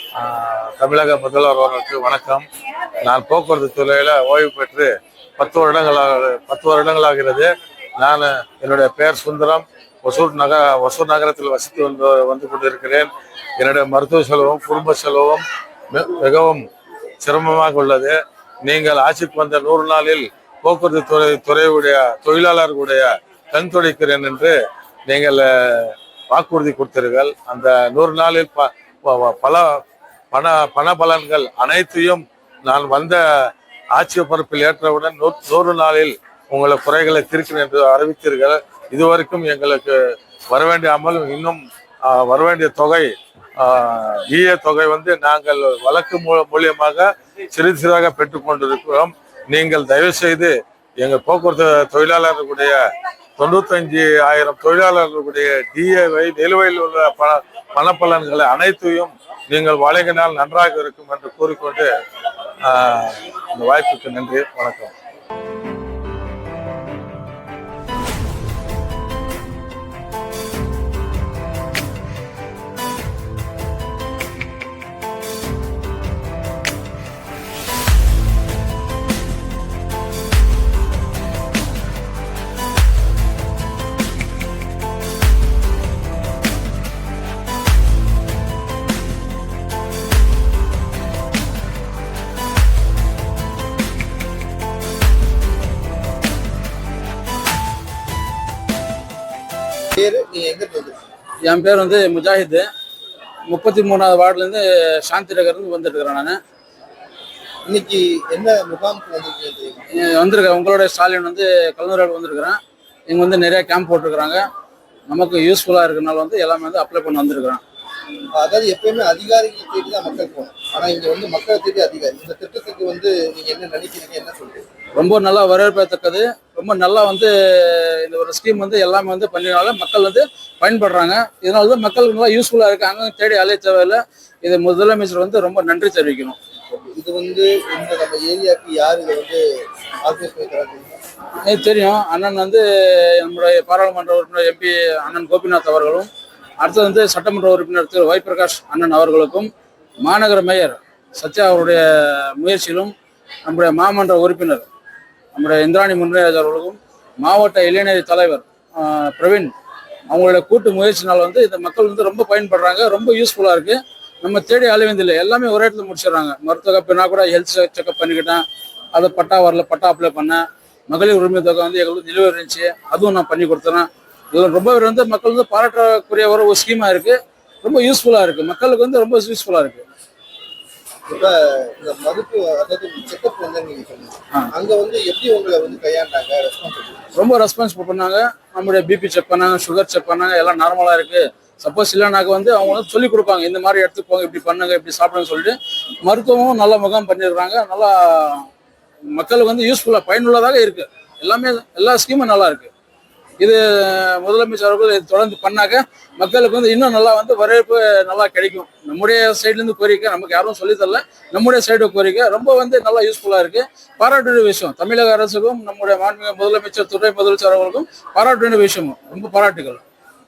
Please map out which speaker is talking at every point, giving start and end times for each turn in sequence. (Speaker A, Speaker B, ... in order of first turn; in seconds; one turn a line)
Speaker A: 0.1-2.4
Speaker A: 3.0-16.6
Speaker A: 17.2-24.5
Speaker A: 25.1-29.8
Speaker A: 30.3-52.8
Speaker A: 53.4-61.9
Speaker A: 62.6-64.9
Speaker B: 99.9-101.0
Speaker C: 101.5-102.7
Speaker C: 103.5-106.4
Speaker B: 107.7-109.8
Speaker C: 110.0-112.6
Speaker C: 113.1-114.4
Speaker C: 115.1-117.6
Speaker B: 118.3-124.7
Speaker C: 125.0-136.4
Speaker B: 136.7-139.4
Speaker B: 140.0-141.0
Speaker C: 141.4-146.1
Speaker C: 146.6-149.5
Speaker C: 150.0-152.9
Speaker C: 153.4-154.7
Speaker C: 155.3-159.5
Speaker C: 160.1-179.8
Speaker B: 181.1-187.1
Speaker C: 187.2-198.5
Speaker C: 199.1-202.7
Speaker C: 203.4-219.8